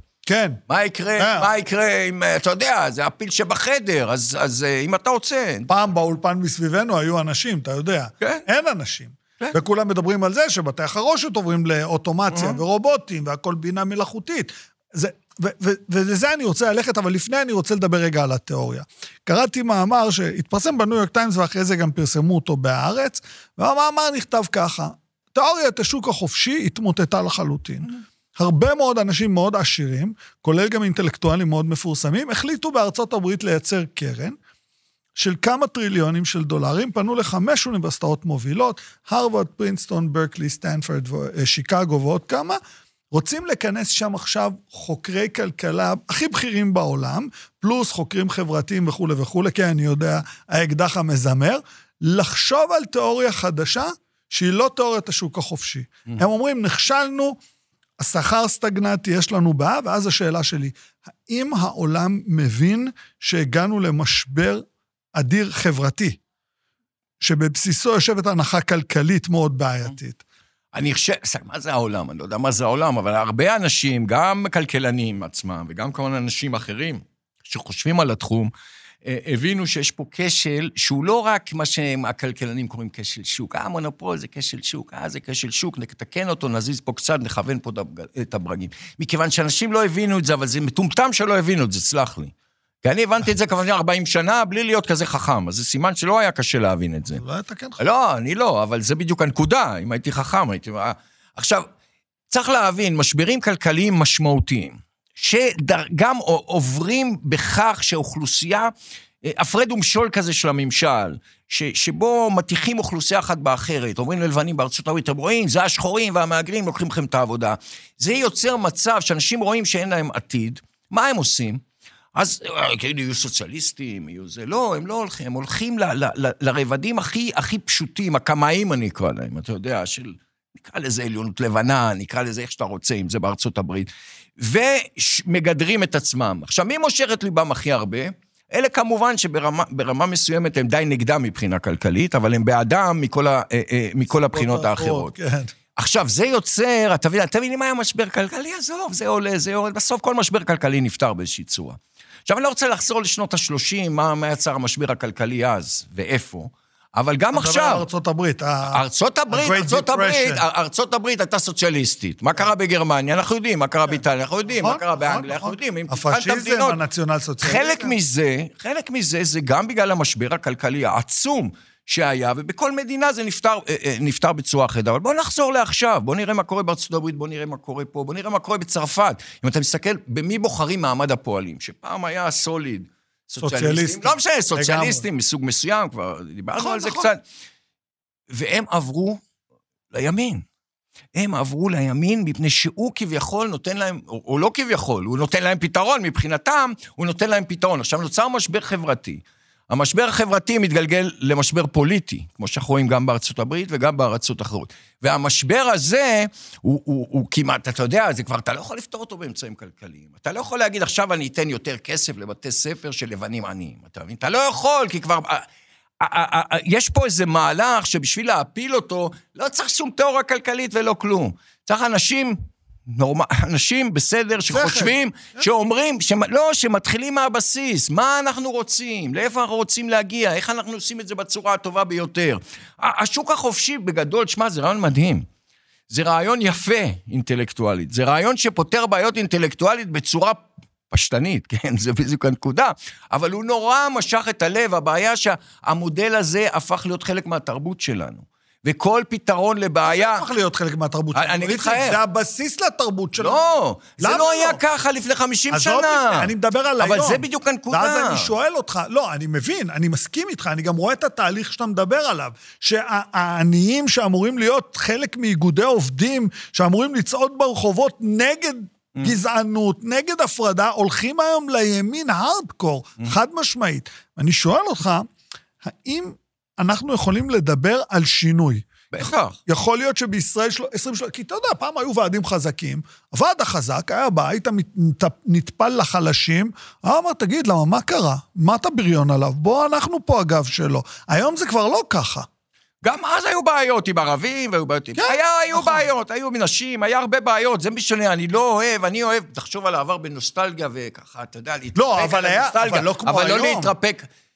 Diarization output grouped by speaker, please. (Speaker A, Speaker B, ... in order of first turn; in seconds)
Speaker A: 0.2-0.6, 1.2-1.5, 5.7-34.4, 35.1-42.6, 43.1-57.4, 58.0-66.2, 67.2-70.2, 97.2-97.8, 144.3-145.5, 157.3-160.4, 164.6-167.9, 183.4-185.0, 186.6-187.1, 224.5-225.4, 249.9-253.4, 254.0-254.6, 255.5-275.1, 275.6-292.3, 294.9-295.9, 301.7-303.7
Speaker B: 0.7-5.7, 12.3-12.6, 70.7-78.5, 79.0-97.2, 97.8-101.7, 102.3-108.7, 109.2-121.6, 122.1-145.1, 145.8-157.8, 158.7-166.8, 167.4-187.2, 188.3-189.2, 189.9-190.4, 191.1-215.4, 216.0-235.2, 235.9-250.3, 251.1-252.0, 253.2-258.3, 278.9-279.4, 292.8-304.1